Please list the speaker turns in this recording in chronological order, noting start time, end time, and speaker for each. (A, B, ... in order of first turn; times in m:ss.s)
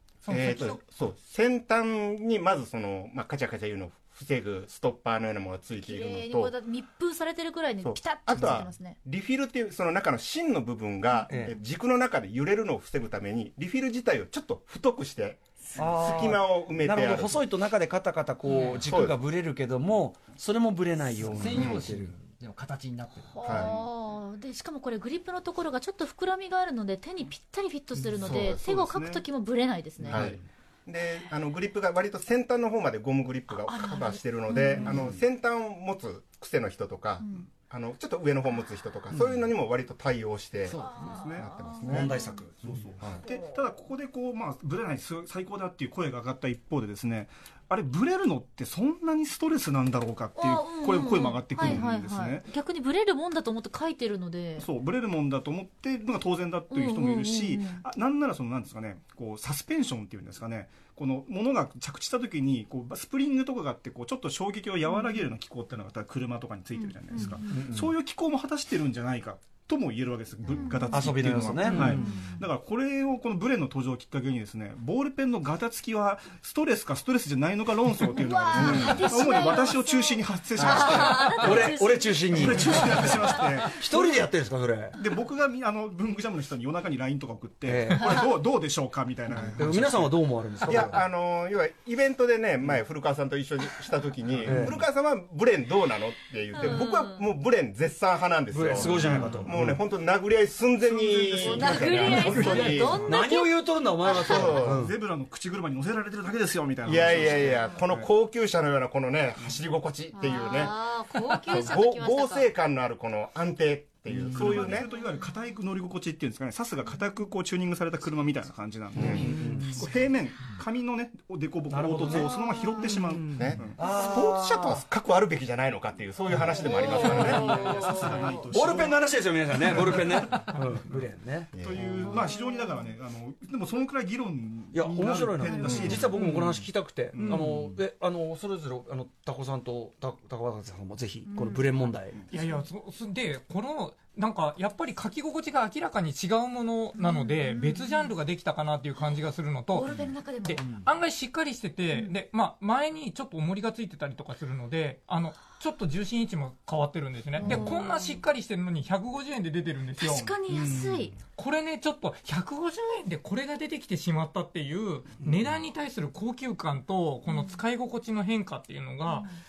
0:00.2-0:00.8 A
0:00.3-0:06.5 B
0:05.8-0:09.0 C
0:07.8-0:15.4 B
0:11.3-0:11.5 D
0:15.8-0:22.1 D
0:16.0-0:17.4 B
0:18.5-0:18.8 C
0:18.8-0:19.2 B
0:21.2-0:23.6 E
0:21.5-0:21.9 B
0:23.3-0:30.3 C
0:23.4-0:23.7 B
0:28.1-0:29.2 F
0:28.2-0:28.6 B
0:30.1-0:42.1 B
0:33.6-0:35.0 C
0:37.2-0:37.5 C
0:40.7-0:41.2 E
0:40.8-0:42.4 C
0:41.0-0:52.5 F
0:41.9-0:42.9 D
0:43.3-0:43.5 C
0:50.4-0:54.7 C
0:54.6-1:21.8 F
0:56.7-0:57.8 C
1:04.9-1:05.2 C
1:06.8-1:07.5 C
1:07.5-1:07.9 D
1:10.5-1:11.1 C
1:10.9-1:12.0 D
1:11.7-1:12.4 C
1:18.1-1:23.4 C
1:18.5-1:19.1 B
1:20.6-1:25.0 D
1:22.3-1:24.3 F
1:25.0-1:30.9 F
1:27.6-1:28.3 D
1:28.0-1:28.2 C
1:29.3-1:31.0 D
1:30.7-1:43.1 B
1:34.4-1:34.7 F
1:34.4-1:34.8 D
1:36.5-1:37.3 C
1:38.5-1:39.8 D
1:38.7-1:39.8 F
1:40.8-1:43.0 F
1:41.4-1:44.6 C
1:42.3-1:44.9 D
1:44.0-1:44.9 B
1:44.2-1:48.1 F
1:46.8-1:50.9 B
1:50.1-1:52.5 C
1:51.5-1:54.9 B
1:54.2-2:03.8 F
1:58.9-1:59.3 B
1:59.0-1:59.7 D
1:59.4-1:59.7 E
2:01.7-2:02.4 D
2:02.2-2:03.0 C
2:02.8-2:03.5 E
2:03.3-2:07.6 B
2:03.8-2:04.8 D
2:06.3-2:10.5 F
2:06.5-2:08.4 C
2:06.9-2:11.6 D
2:11.5-2:16.6 F
2:11.6-2:12.0 B
2:12.1-2:12.8 C
2:14.7-2:22.2 D
2:15.4-2:16.1 C
2:15.6-2:15.9 B
2:16.2-2:16.5 E
2:17.1-2:17.8 F
2:17.1-2:17.6 E
2:21.3-2:21.6 C
2:22.3-2:29.9 A
2:27.0-2:28.1 C
2:29.7-2:30.6 C
2:30.4-2:40.4 A
2:30.6-2:30.9 E
2:37.4-2:38.2 C
2:37.4-2:37.7 E
2:40.0-2:41.1 C
2:40.5-2:41.1 E
2:41.4-2:49.3 A
2:47.3-2:47.6 C
2:49.0-2:49.3 C